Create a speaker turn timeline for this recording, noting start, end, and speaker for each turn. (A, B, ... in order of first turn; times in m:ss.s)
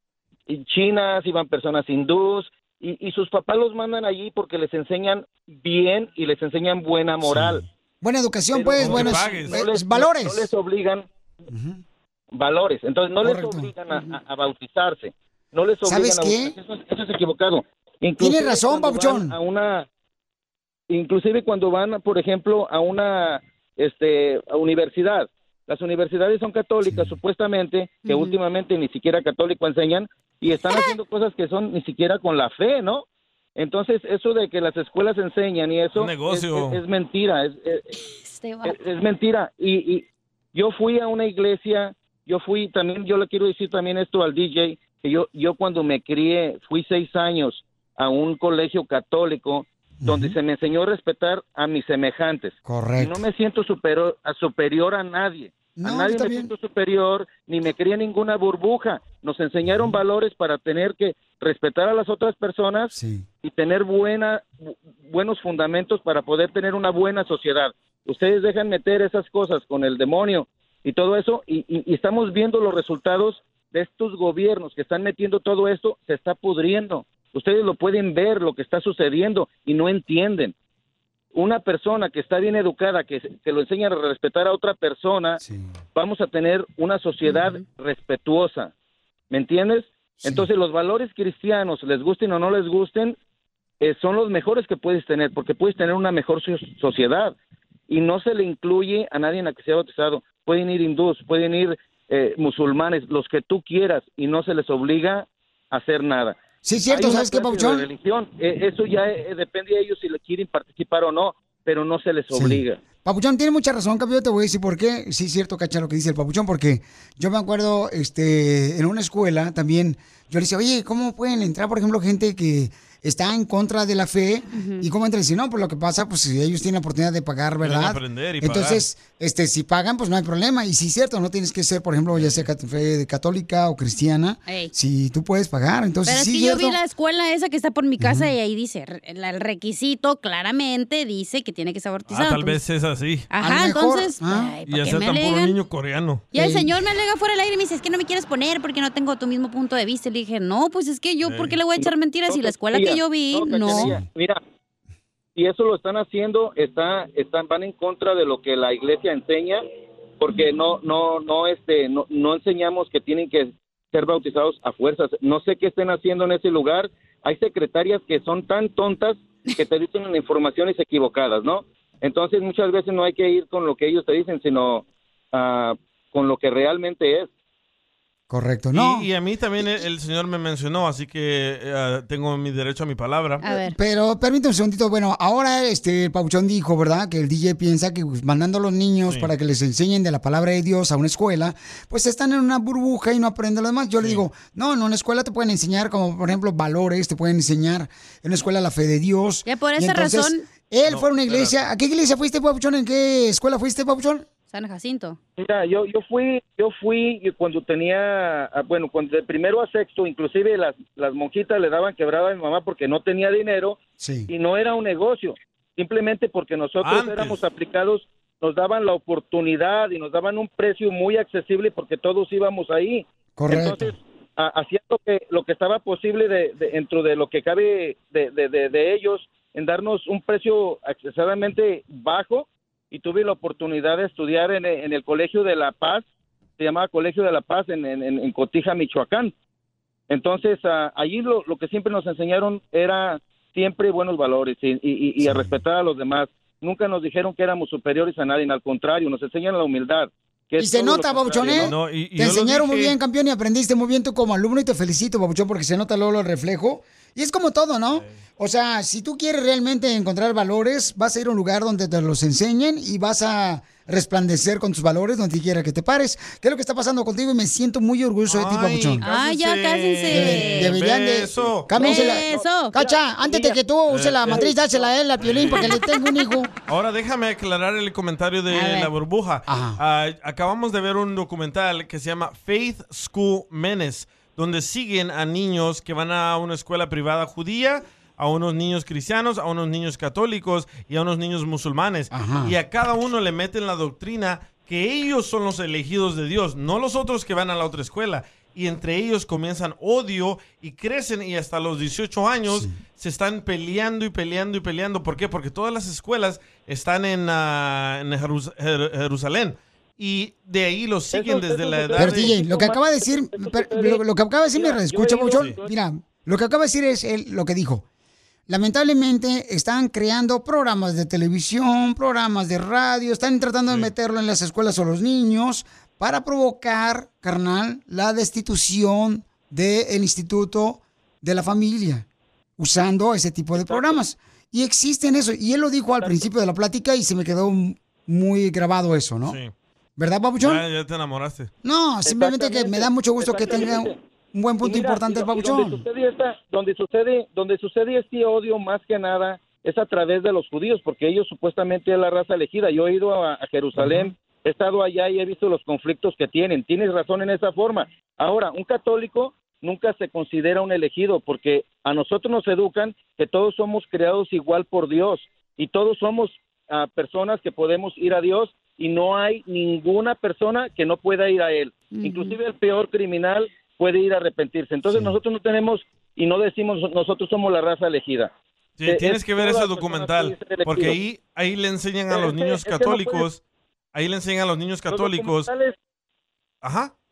0:00.5-0:07.6 A
0:07.2-0:10.5 B
0:08.5-0:11.1 A
0:08.8-0:09.6 C
0:11.5-0:11.8 B
0:12.3-0:19.9 A
0:13.2-0:13.7 B
0:15.8-0:16.6 B
0:18.2-0:19.4 B
0:20.9-0:33.0 A
0:26.9-0:27.2 B
0:28.1-0:28.4 D
0:33.6-0:37.9 A
0:35.9-0:36.8 C
0:38.0-0:38.8 D
0:38.6-1:20.5 A
0:50.0-0:50.4 B
0:52.6-0:53.2 B
0:55.8-0:56.5 B
1:02.9-1:03.3 B
1:21.3-1:25.4 A
1:25.4-1:25.7 B
1:26.0-1:28.7 A
1:27.2-1:27.6 D
1:29.3-1:33.2 A
1:33.8-1:37.4 A
1:37.9-1:52.8 A
1:46.6-1:47.9 B
1:52.3-2:16.8 B
2:04.5-2:04.9 D
2:07.6-2:08.8 C
2:12.1-2:12.5 C
2:14.5-2:14.7 D
2:16.1-2:22.6 D
2:18.0-2:18.3 B
2:22.1-2:23.3 C
2:23.3-2:25.6 D
2:23.4-2:24.6 B
2:24.7-2:26.2 C
2:26.3-2:34.0 D
2:26.3-2:26.7 B
2:31.2-2:31.6 C
2:31.8-2:34.4 A
2:33.6-2:34.1 B
2:35.4-2:39.6 A
2:40.2-2:57.3 A
2:58.3-2:59.1 B
2:58.7-3:03.4 C
3:03.4-3:03.8 D
3:03.4-3:24.3 B
3:14.0-3:14.2 C
3:19.4-3:20.4 D
3:20.9-3:21.6 C
3:24.5-3:25.2 D
3:25.4-3:56.0 A
3:34.0-3:34.3 B
3:36.8-3:37.4 C
3:43.4-3:43.9 B
3:56.6-3:59.3 A
4:00.1-4:11.7 A
4:05.2-4:05.6 B
4:10.6-4:29.0 B
4:11.6-4:13.0 C
4:28.3-4:31.8 C
4:29.0-4:30.7 D
4:30.1-4:36.5 B
4:31.8-4:32.8 D
4:31.9-4:33.6 A
4:33.9-4:34.5 C
4:35.2-4:35.6 C
4:36.7-5:12.4 C
4:38.5-4:38.9 D
4:39.5-4:39.8 B
4:52.1-4:52.5 B
5:02.5-5:02.7 B
5:11.1-5:15.7 A
5:12.0-5:17.8 B
5:18.5-5:32.0 B
5:32.6-5:39.4 B
5:33.5-5:34.0 A
5:36.0-5:36.3 A
5:39.3-5:39.5 C
5:40.0-5:40.6 B
5:40.4-5:41.5 C
5:41.6-5:45.8 B
5:42.0-5:44.0 A
5:44.6-6:18.3 A
5:53.8-5:54.1 C
6:11.9-6:12.4 D
6:14.9-6:15.2 B
6:18.8-6:23.4 C
6:18.9-6:21.0 A
6:22.1-6:23.2 A
6:23.9-6:25.5 C
6:24.9-6:25.7 A
6:26.6-6:26.9 C